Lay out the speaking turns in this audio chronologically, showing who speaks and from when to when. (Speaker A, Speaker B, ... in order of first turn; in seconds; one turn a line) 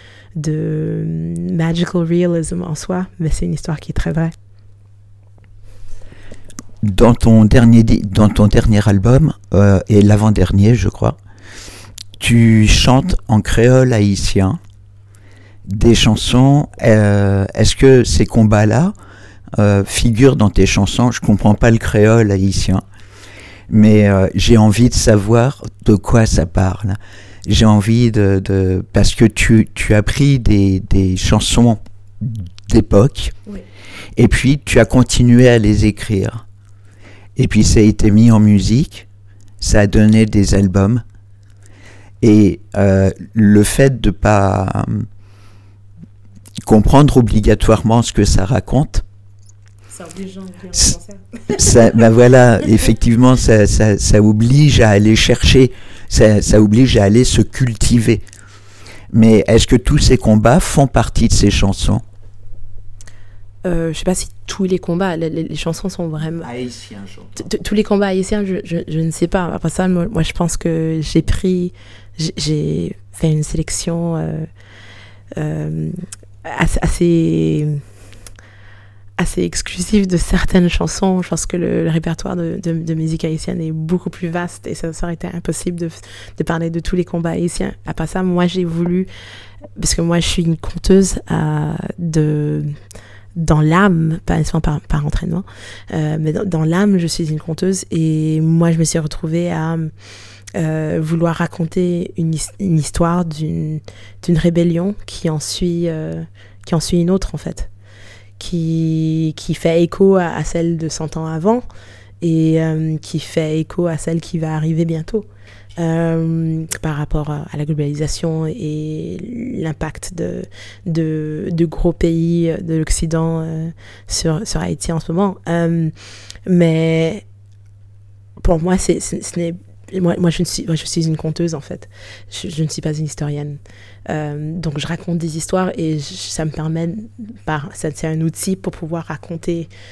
Speaker A: 0.4-4.3
Speaker B: 6.8-11.2
Speaker B: 12.2-14.6
Speaker B: 15.7-18.9
Speaker B: 19.6-22.8
Speaker B: 23.7-33.4
Speaker B: 34.2-36.4
Speaker B: 37.4-39.1
Speaker B: 39.6-41.0
Speaker B: 42.2-45.1
Speaker B: 46.6-49.0
Speaker A: 49.9-52.0
Speaker B: 51.5-58.2
Speaker B: 59.1-62.0
Speaker A: 63.6-66.5
Speaker B: 66.4-67.4
Speaker A: 67.4-74.5
Speaker A: 75.4-77.8
Speaker A: 79.2-89.1
Speaker A: 89.8-92.8
Speaker A: 93.4-99.9
Speaker A: 100.5-107.7
Speaker A: 108.4-111.7
Speaker A: 112.2-125.9
Speaker A: 126.5-127.2
Speaker A: 128.4-139.7